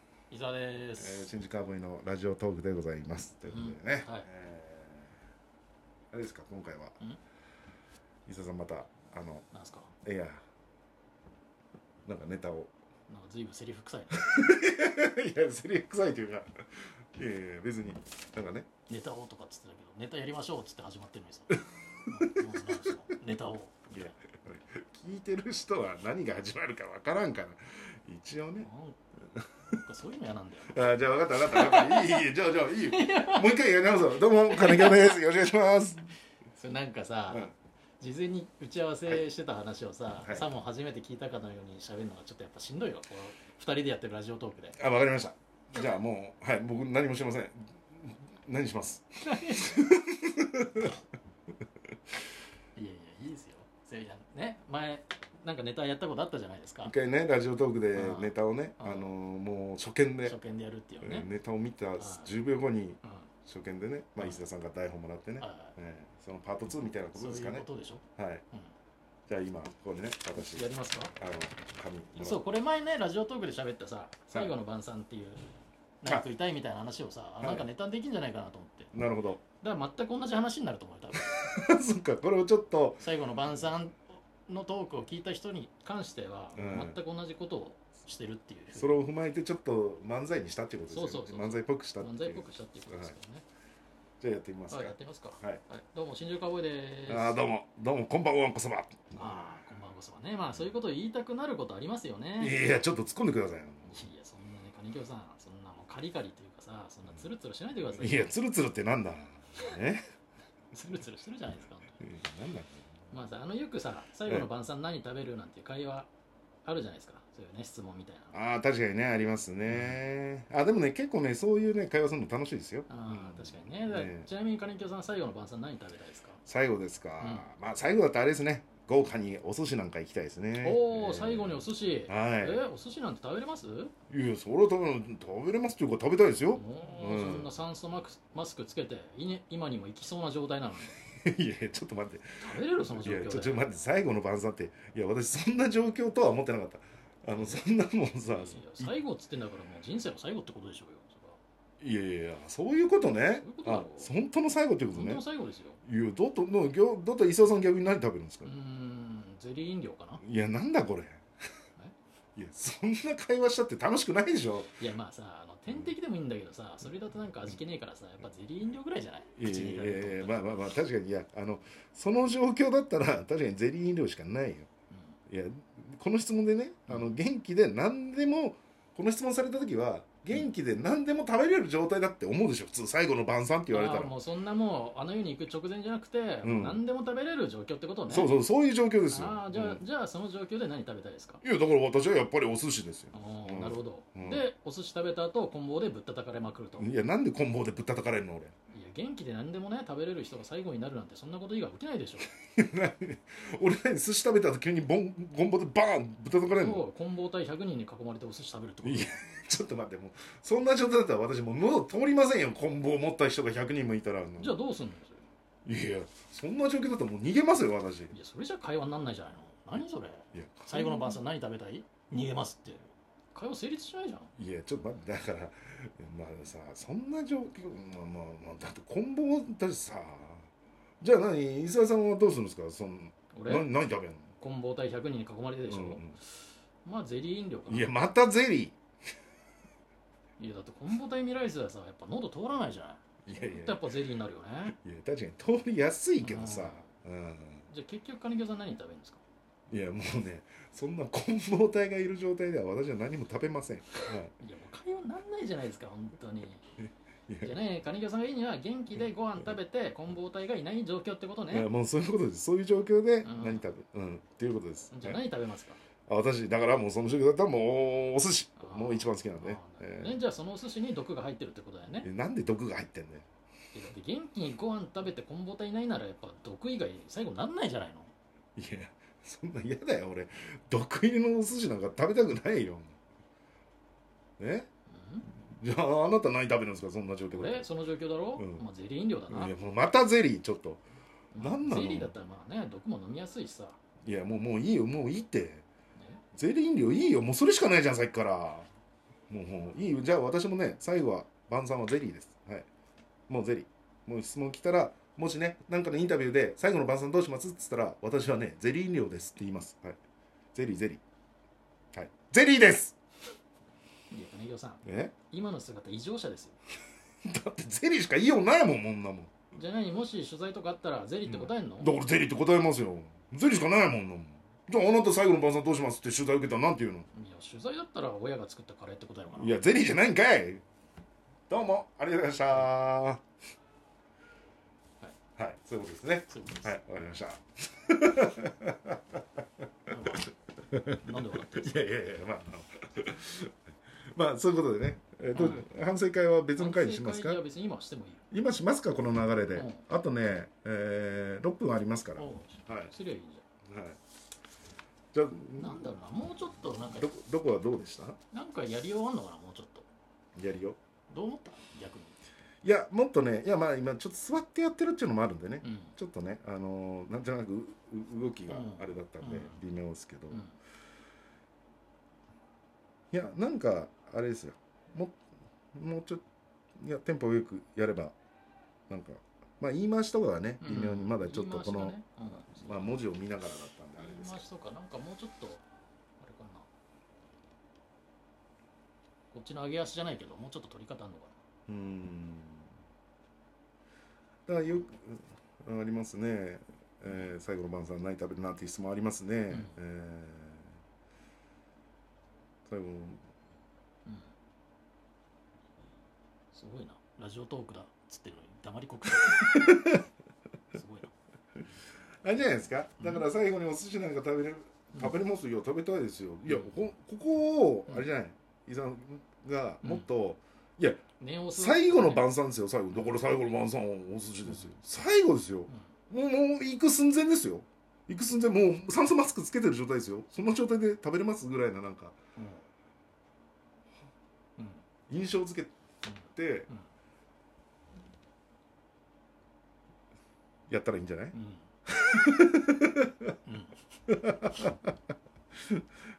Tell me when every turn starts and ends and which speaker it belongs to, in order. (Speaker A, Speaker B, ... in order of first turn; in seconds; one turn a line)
Speaker A: 0.3-1.3
Speaker B: 1.0-5.1
Speaker A: 3.5-4.3
Speaker B: 6.1-7.0
Speaker B: 8.2-9.4
Speaker A: 9.5-9.9
Speaker B: 10.0-10.4
Speaker B: 12.1-12.7
Speaker A: 13.1-14.4
Speaker B: 14.1-18.7
Speaker A: 18.9-24.1
Speaker B: 21.6-22.8
Speaker B: 23.9-28.7
Speaker A: 28.6-29.0
Speaker B: 29.3-29.7
Speaker A: 29.7-30.9
Speaker B: 30.7-36.1
Speaker A: 31.4-32.3
Speaker A: 32.8-33.5
Speaker A: 34.5-35.2
Speaker A: 36.5-44.8
Speaker B: 40.2-40.5
Speaker B: 44.8-51.0
Speaker A: 49.2-49.8
Speaker A: 52.7-56.9
Speaker B: 56.8-60.4
Speaker A: 57.9-59.1
Speaker A: 60.2-61.3
Speaker B: 61.0-68.4
Speaker A: 62.0-62.3
Speaker A: 63.0-63.3
Speaker A: 64.2-64.4
Speaker A: 65.4-65.7
Speaker A: 67.0-68.7
Speaker B: 69.3-72.4
Speaker A: 70.3-71.2
Speaker A: 72.2-78.9
Speaker B: 74.3-74.5
Speaker B: 77.4-77.7
Speaker B: 78.9-79.4
Speaker A: 79.6-81.3
Speaker B: 81.1-83.0
Speaker A: 83.0-89.0
Speaker B: 86.5-87.0
Speaker B: 88.7-93.1
Speaker A: 90.9-93.4
Speaker B: 94.2-95.6
Speaker A: 94.7-97.4
Speaker B: 97.1-99.6
Speaker A: 99.2-102.6
Speaker B: 102.4-104.0
Speaker A: 103.8-108.3
Speaker B: 108.0-110.0
Speaker A: 110.7-112.0
Speaker B: 112.0-112.9
Speaker A: 113.1-116.1
Speaker A: 116.6-118.3
Speaker B: 118.3-124.3
Speaker A: 119.7-120.0
Speaker A: 122.9-126.4
Speaker B: 126.4-132.6
Speaker A: 127.2-127.5
Speaker A: 130.6-133.9
Speaker B: 134.1-137.5
Speaker A: 136.5-140.9
Speaker B: 140.9-148.9
Speaker A: 142.4-143.7
Speaker A: 147.3-147.6
Speaker A: 148.3-151.4
Speaker B: 151.8-155.2
Speaker A: 153.4-154.1
Speaker A: 154.9-155.8
Speaker B: 155.8-158.5
Speaker A: 158.4-160.2
Speaker B: 160.2-161.2
Speaker B: 162.3-164.8
Speaker A: 164.8-170.8
Speaker B: 169.3-174.7
Speaker B: 175.3-184.1
Speaker A: 183.7-188.4
Speaker B: 186.4-186.8
Speaker B: 188.1-189.8
Speaker A: 189.1-191.4
Speaker B: 191.4-194.4
Speaker A: 193.1-196.9
Speaker B: 196.8-198.5
Speaker A: 198.7-202.3
Speaker B: 202.3-206.8
Speaker A: 206.5-209.2
Speaker B: 208.8-214.6
Speaker A: 214.4-215.2
Speaker B: 215.6-218.1
Speaker A: 218.1-224.3
Speaker B: 220.3-221.2
Speaker B: 224.3-230.5
Speaker B: 231.0-234.3
Speaker A: 233.3-233.7
Speaker A: 234.4-236.1
Speaker B: 235.7-236.2
Speaker A: 236.8-237.9
Speaker B: 237.7-238.8
Speaker A: 240.4-244.8
Speaker B: 243.2-243.9
Speaker B: 244.7-247.6
Speaker A: 246.2-246.9
Speaker A: 247.7-249.2
Speaker B: 249.7-254.3
Speaker A: 254.4-256.6
Speaker B: 257.3-257.5
Speaker A: 257.4-261.7
Speaker B: 261.5-265.2
Speaker A: 263.2-263.7
Speaker A: 264.9-265.8
Speaker B: 266.1-270.2
Speaker A: 268.6-272.1
Speaker B: 272.0-273.2
Speaker A: 273.7-278.1
Speaker B: 278.6-282.9
Speaker B: 284.4-284.7
Speaker A: 284.9-285.2
Speaker B: 285.2-287.7
Speaker A: 287.3-289.5
Speaker B: 288.4-288.6
Speaker B: 289.3-290.8
Speaker A: 291.3-293.8
Speaker B: 291.4-292.1
Speaker B: 294.0-295.6
Speaker A: 295.9-296.2
Speaker B: 296.3-298.7
Speaker B: 299.3-302.7
Speaker B: 303.3-310.0
Speaker B: 310.5-311.0
Speaker B: 311.9-313.0
Speaker A: 314.1-316.6
Speaker B: 314.8-315.1
Speaker B: 317.2-319.3
Speaker A: 319.5-321.9
Speaker B: 321.3-327.1
Speaker A: 327.1-329.6
Speaker B: 329.3-330.6
Speaker B: 331.5-333.2
Speaker B: 335.4-339.9
Speaker A: 336.3-336.7
Speaker A: 339.9-340.3
Speaker B: 340.6-343.5
Speaker A: 341.0-341.8
Speaker B: 344.1-347.4
Speaker A: 345.3-345.7
Speaker A: 346.6-348.2
Speaker B: 348.3-352.9
Speaker A: 349.5-349.8
Speaker A: 352.1-353.4
Speaker B: 353.6-354.0
Speaker B: 355.1-355.9
Speaker A: 355.6-357.1
Speaker B: 356.8-358.2
Speaker A: 358.3-359.9
Speaker B: 360.4-360.8
Speaker A: 361.1-362.2
Speaker B: 362.6-370.4
Speaker A: 365.6-365.9
Speaker A: 368.5-369.6
Speaker B: 373.1-375.2
Speaker B: 375.7-376.2
Speaker B: 376.8-378.1
Speaker B: 378.9-381.9
Speaker A: 380.6-382.9
Speaker B: 382.6-384.4
Speaker A: 384.0-385.6
Speaker A: 386.2-386.7
Speaker A: 389.3-391.4
Speaker B: 391.7-392.7
Speaker B: 394.5-400.7
Speaker A: 399.5-399.8
Speaker B: 402.6-403.2
Speaker A: 404.1-404.3
Speaker A: 406.5-409.9
Speaker B: 409.1-410.0
Speaker A: 410.7-411.1
Speaker B: 412.2-432.1
Speaker A: 413.0-413.2
Speaker A: 416.4-416.9
Speaker A: 419.8-420.1
Speaker A: 421.2-422.3
Speaker A: 424.4-424.8
Speaker A: 432.4-432.7
Speaker A: 434.6-434.8
Speaker B: 435.1-436.7
Speaker A: 436.0-436.9
Speaker B: 440.7-443.4
Speaker A: 441.3-441.7
Speaker A: 443.4-443.8
Speaker B: 444.1-444.9
Speaker B: 445.6-445.8